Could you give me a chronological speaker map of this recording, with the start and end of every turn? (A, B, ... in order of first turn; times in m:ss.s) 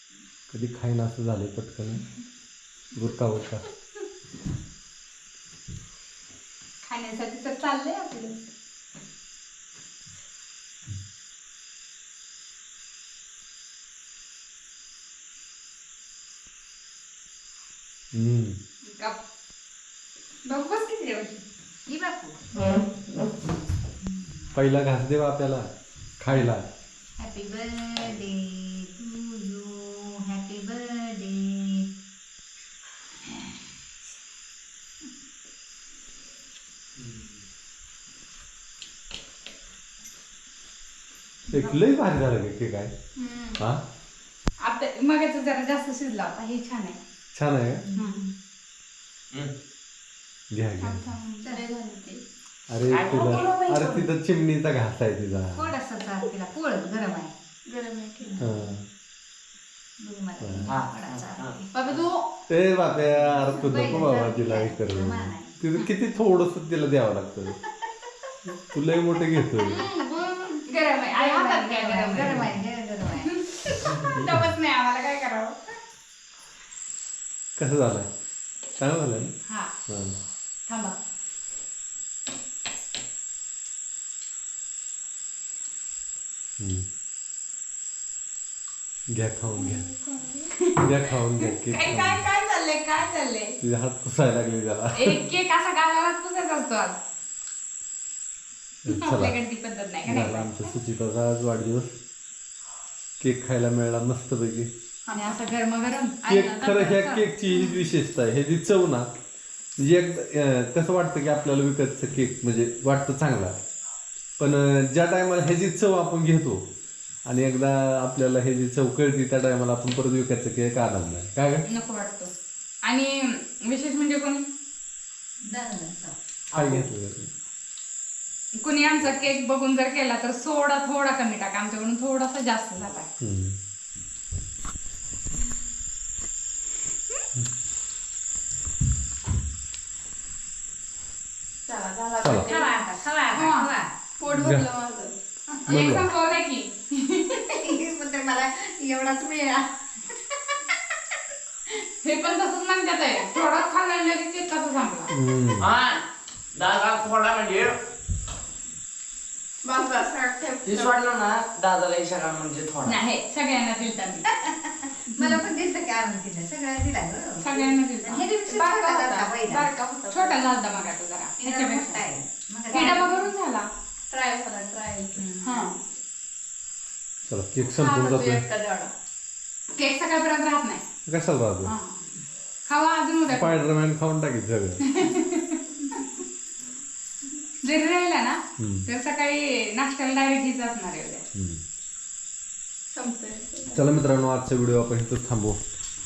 0:00.5-0:02.0 A
0:02.9-0:03.6 A
0:06.8-0:08.4 B
0:18.1-0:18.6 A
0:18.8-0:19.2 B
0:20.4-0:21.4 B
0:21.9-0:22.8 C
0:24.0-0:24.5 C
0:24.5-0:25.7 A
0:26.2-0:26.7 A
0:27.2-0:31.9 C
0:41.5-0:41.8 C
0:41.5-0:42.9 A
0:43.2-0:43.6 B
0:43.6-0:43.8 A
0:44.6-0:47.0 B
0:47.3-0:47.8 A
0:47.9-0:48.3 C
0:47.9-0:48.2 B
0:50.5-0:51.1 A
0:50.8-0:52.2 B
0:52.7-0:55.7 A
0:52.9-0:53.6 D
0:53.1-0:54.0 B
0:55.5-0:57.4 C
0:57.7-0:58.5 B
0:58.2-0:58.5 C
0:58.4-0:58.8 A
1:00.0-1:01.7 C
1:00.4-1:00.7 A
1:00.7-1:01.6 D
1:01.7-1:02.3 B
1:02.5-1:07.6 A
1:03.4-1:05.6 C
1:08.7-1:09.8 A
1:09.6-1:12.5 B
1:09.7-1:10.1 C
1:11.1-1:13.4 C
1:13.1-1:15.6 B
1:13.7-1:14.5 A
1:17.6-1:18.1 A
1:18.8-1:19.3 A
1:19.9-1:20.2 A
1:20.7-1:21.0 B
1:26.6-1:26.9 A
1:29.1-1:29.8 A
1:29.5-1:33.6 B
1:30.8-1:32.2 A
1:33.6-1:35.3 A
1:35.0-1:37.0 B
1:38.8-1:39.4 A
1:38.9-1:40.7 B
1:40.0-1:41.9 A
1:43.2-1:44.7 A
1:45.1-1:47.8 B
1:46.2-1:49.1 A
1:49.8-1:53.6 A
1:54.4-1:56.6 A
1:57.3-2:01.6 A
2:01.7-2:02.3 B
2:02.8-2:04.4 B
2:05.4-2:06.2 C
2:06.5-2:07.3 A
2:06.5-2:06.9 D
2:08.6-2:13.1 B
2:13.2-2:13.6 A
2:21.7-2:22.7 B
2:22.2-2:22.5 A
2:22.4-2:23.9 C
2:23.3-2:27.6 B
2:24.3-2:24.7 A
2:25.7-2:26.1 A
2:27.5-2:29.7 C
2:32.0-2:35.1 B
2:35.1-2:35.7 A
2:35.6-2:36.0 D
2:36.5-2:37.8 D
2:39.6-2:40.9 B
2:40.6-2:43.0 D
2:42.8-2:44.3 B
2:44.3-2:50.9 C
2:45.1-2:45.5 B
2:47.4-2:52.1 B
2:51.4-2:53.2 C
2:52.7-2:54.2 B
2:54.1-2:55.7 C
2:55.2-2:55.7 B
2:57.3-2:58.4 A
2:57.8-2:58.9 B
2:59.8-3:00.8 B
3:01.1-3:01.8 A
3:01.6-3:02.0 B
3:02.7-3:03.6 B
3:03.3-3:04.9 A
3:04.8-3:06.1 B
3:07.6-3:11.2 B
3:08.6-3:08.9 A
3:11.4-3:11.6 A
3:12.9-3:13.8 B
3:13.7-3:15.6 A